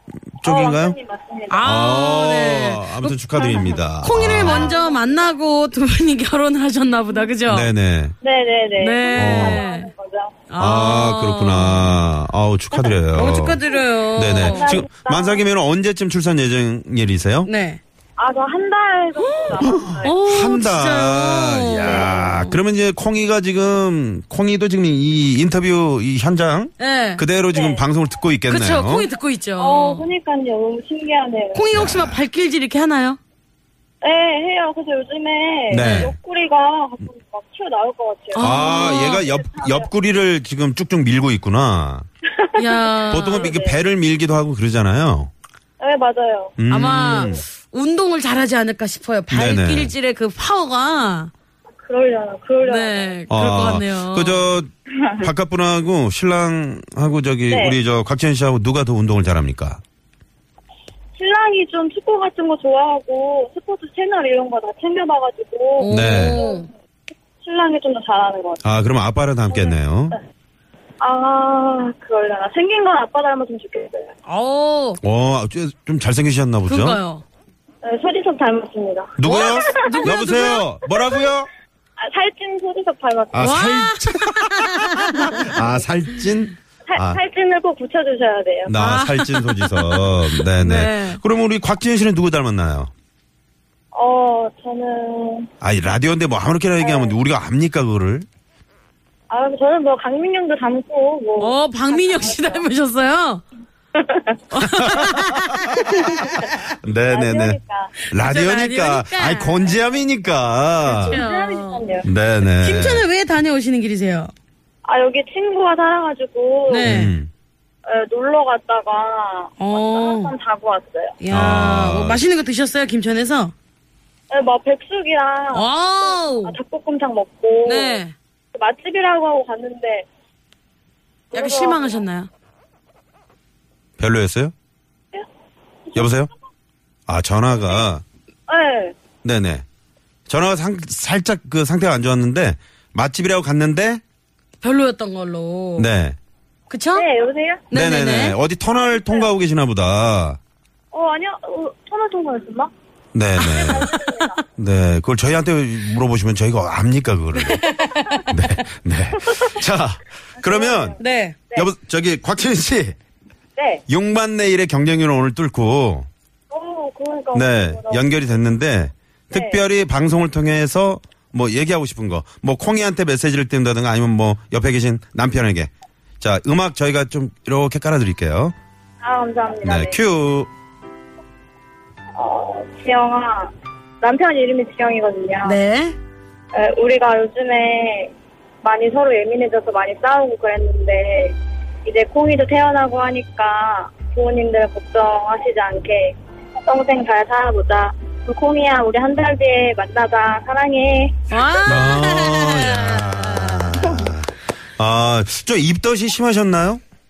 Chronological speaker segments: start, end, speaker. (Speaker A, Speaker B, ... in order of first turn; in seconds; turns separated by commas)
Speaker A: 0.4-1.0, Speaker B: 0.5-1.6, Speaker C: 1.5-3.1, Speaker A: 1.6-4.7, Speaker C: 4.0-7.7, Speaker B: 4.3-5.2, Speaker A: 7.5-8.2, Speaker B: 8.2-10.4, Speaker C: 8.8-9.9, Speaker A: 9.2-9.6, Speaker C: 10.5-12.0, Speaker A: 10.6-13.6, Speaker C: 13.1-14.9, Speaker A: 14.2-17.5, Speaker B: 14.4-15.4, Speaker C: 17.4-17.8, Speaker B: 18.2-20.2, Speaker C: 19.2-22.6, Speaker A: 19.6-29.1, Speaker B: 21.8-22.1, Speaker C: 26.8-27.2, Speaker B: 27.5-27.9, Speaker C: 28.5-30.1, Speaker B: 29.6-31.6, Speaker C: 31.5-33.2, Speaker A: 31.7-32.2, Speaker B: 34.0-39.9, Speaker A: 35.7-36.1, Speaker C: 35.7-36.1, Speaker C: 38.3-39.2, Speaker A: 38.4-42.1, Speaker B: 42.3-43.8, Speaker C: 42.6-43.5, Speaker A: 43.1-45.3, Speaker B: 45.8-46.6, Speaker A: 46.6-47.4, Speaker C: 46.7-51.3, Speaker A: 49.3-49.9, Speaker B: 51.8-53.2, Speaker C: 52.7-54.5, Speaker A: 53.3-59.8, Speaker B: 57.5-57.8, Speaker B: 61.2-66.6, Speaker C: 65.8-66.7, Speaker A: 65.9-66.4, Speaker B: 67.4-68.6, Speaker A: 68.6-70.2, Speaker B: 69.5-69.8, Speaker B: 71.0-74.1, Speaker C: 74.3-75.0, Speaker A: 75.0-77.0, Speaker C: 76.7-77.2, Speaker B: 77.8-81.3, Speaker A: 79.2-81.5, Speaker C: 79.2-80.6, Speaker B: 82.0-83.7, Speaker A: 83.3-87.2, Speaker C: 83.4-85.5, Speaker B: 86.9-88.8, Speaker A: 88.7-92.9, Speaker C: 88.8-91.2, Speaker B: 93.9-95.5, Speaker A: 95.6-98.3, Speaker B: 96.8-97.2, Speaker B: 99.3-102.7, Speaker C: 101.4-103.4, Speaker B: 104.0-104.4, Speaker C: 104.5-106.5, Speaker A: 104.7-107.6, Speaker B: 107.1-108.0, Speaker A: 108.1-111.2, Speaker C: 108.1-109.8, Speaker C: 110.8-111.8, Speaker B: 111.0-112.1, Speaker A: 112.0-113.0, Speaker C: 112.4-114.3, Speaker B: 114.8-116.9, Speaker C: 116.7-117.2, Speaker A: 116.8-117.3, Speaker B: 117.9-121.2, Speaker C: 119.6-120.3, Speaker C: 121.2-123.5, Speaker A: 121.3-122.2, Speaker B: 124.3-128.0, Speaker C: 125.5-126.6, Speaker C: 127.7-128.2, Speaker B: 128.5-130.1, Speaker B: 131.3-132.0, Speaker C: 131.3-132.3, Speaker A: 134.0-134.5, Speaker A: 135.9-136.3, Speaker A: 137.1-138.0, Speaker B: 138.5-138.9, Speaker A: 139.2-139.7, Speaker A: 140.3-144.0, Speaker C: 144.6-145.9, Speaker A: 145.8-146.2, Speaker C: 146.7-147.1, Speaker B: 146.9-147.7, Speaker C: 147.7-148.4, Speaker A: 147.7-150.4, Speaker B: 148.7-149.3, Speaker B: 150.9-152.7, Speaker A: 153.1-153.9, Speaker C: 153.4-153.9, Speaker B: 153.5-154.4, Speaker A: 154.5-157.6, Speaker C: 157.3-158.6, Speaker A: 158.3-161.0, Speaker B: 160.4-161.0, Speaker C: 161.0-161.4, Speaker A: 161.6-163.0, Speaker B: 163.6-163.8, Speaker A: 163.9-166.1, Speaker B: 166.5-168.2, Speaker A: 167.3-178.6, Speaker B: 169.3-169.6, Speaker B: 179.0-180.0, Speaker A: 179.6-180.5, Speaker B: 182.2-185.6, Speaker C: 185.4-186.0, Speaker B: 186.5-201.7, Speaker C: 201.3-204.1, Speaker A: 201.7-206.8